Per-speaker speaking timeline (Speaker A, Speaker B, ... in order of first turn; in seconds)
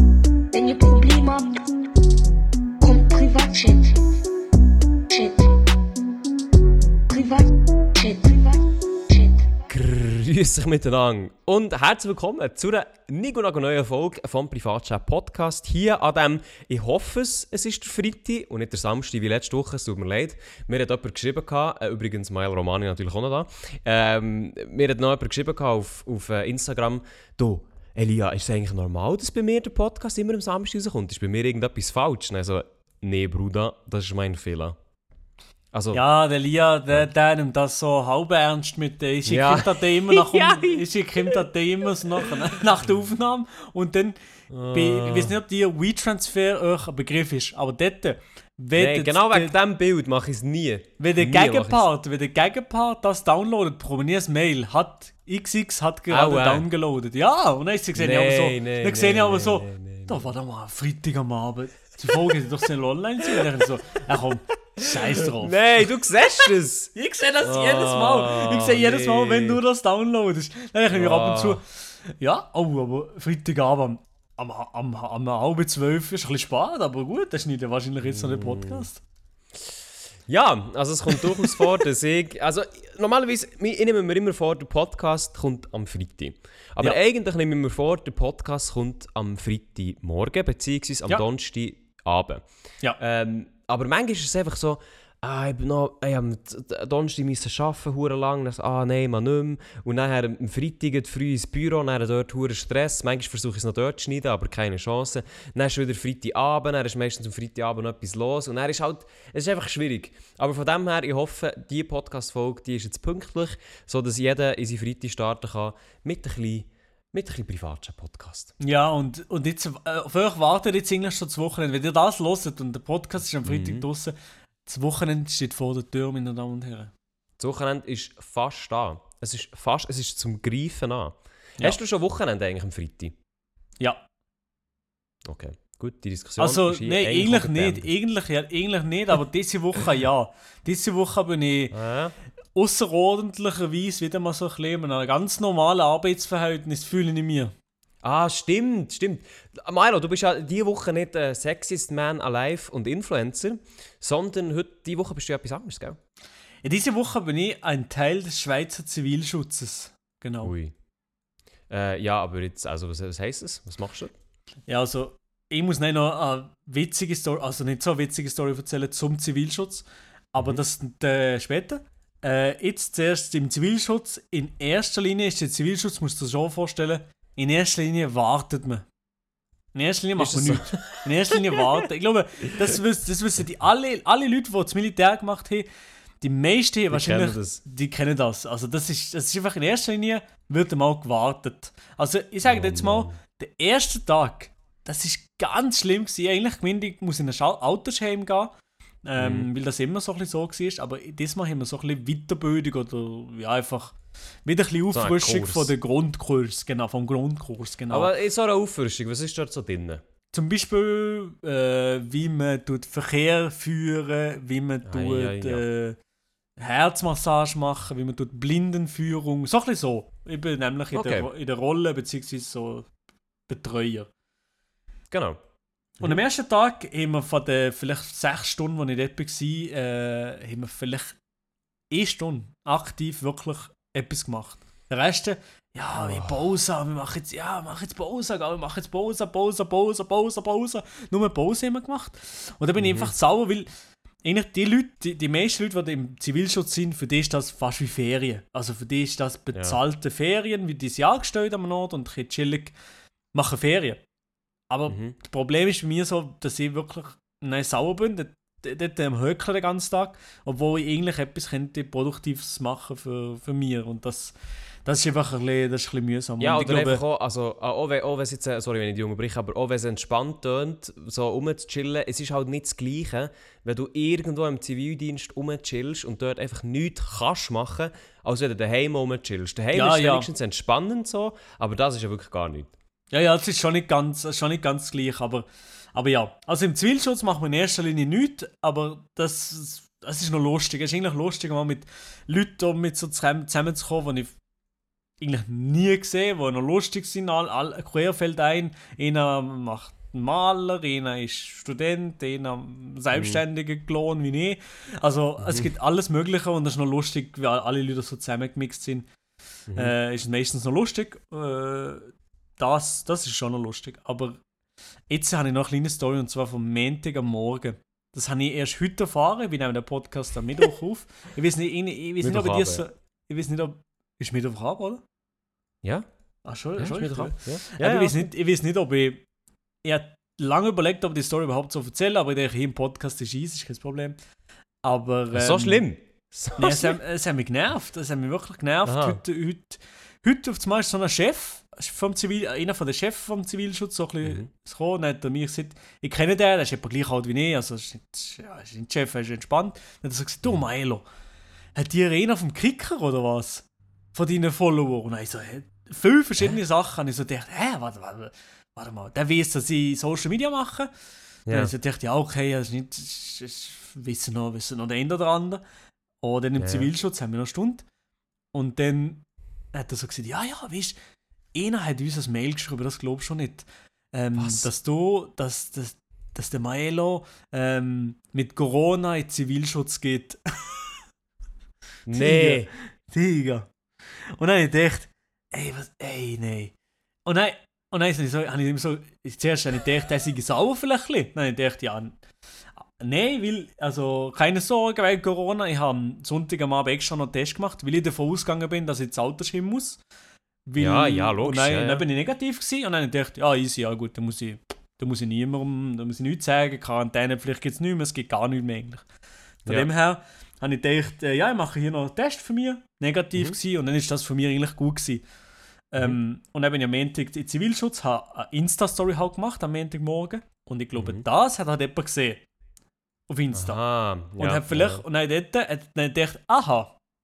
Speaker A: 0.5-1.6, 2.8-4.0, 5.1-5.7, 7.1-9.5
Speaker B: 9.7-34.8, 35.7-36.0, 39.3-40.8, 44.5-45.3, 48.8-51.8, 56.1-56.6, 58.0-60.3, 64.8-66.9, 67.4-69.6, 70.9-71.6, 78.0-78.9, 80.3-92.4, 93.0-118.5, 123.5-123.8, 127.4-133.1, 135.2-137.9, 141.7-142.1, 148.0-156.0, 160.4-160.7, 161.7-164.1, 180.2-181.0, 186.9-187.6, 192.4-193.2, 199.2-199.5, 204.9-205.7, 207.9-210.0, 214.8-215.6, 220.9-221.3, 225.1-225.4, 236.0-236.4, 242.8-243.1, 254.9-255.2, 266.4-282.7, 303.1-303.4, 305.4-305.7, 309.7-309.9, 322.2-322.8, 326.8-328.2, 335.3-336.9, 338.9-339.2, 361.5-361.7, 366.6-366.9, 374.4-374.7, 382.1-382.7, 400.8-402.0, 421.0-421.2, 423.5-425.0
Speaker C: 35.9-49.5, 51.0-65.8, 66.9-79.0, 81.1-81.6, 118.6-124.1, 124.7-126.9, 136.4-141.8, 142.5-147.5, 156.6-160.5, 164.7-178.8, 179.7-185.7, 186.2-198.5, 199.0-208.1, 210.3-216.0, 216.6-222.9, 223.5-224.1, 226.0-231.2, 231.9-243.7, 244.2-252.7, 253.3-254.0, 254.7-267.0, 279.7-280.3, 283.1-294.3, 295.2-309.1, 309.7-314.4, 315.1-325.0, 326.4-329.2, 329.8-334.1, 334.8-335.8, 336.6-351.1, 351.7-360.9, 361.5-365.6, 366.2-367.8, 368.5-370.9, 371.5-380.9, 382.1-383.7, 384.4-386.7, 387.2-392.2, 393.0-400.0, 400.6-409.0, 409.7-415.2, 415.9-422.4, 423.3-423.8, 424.4-426.9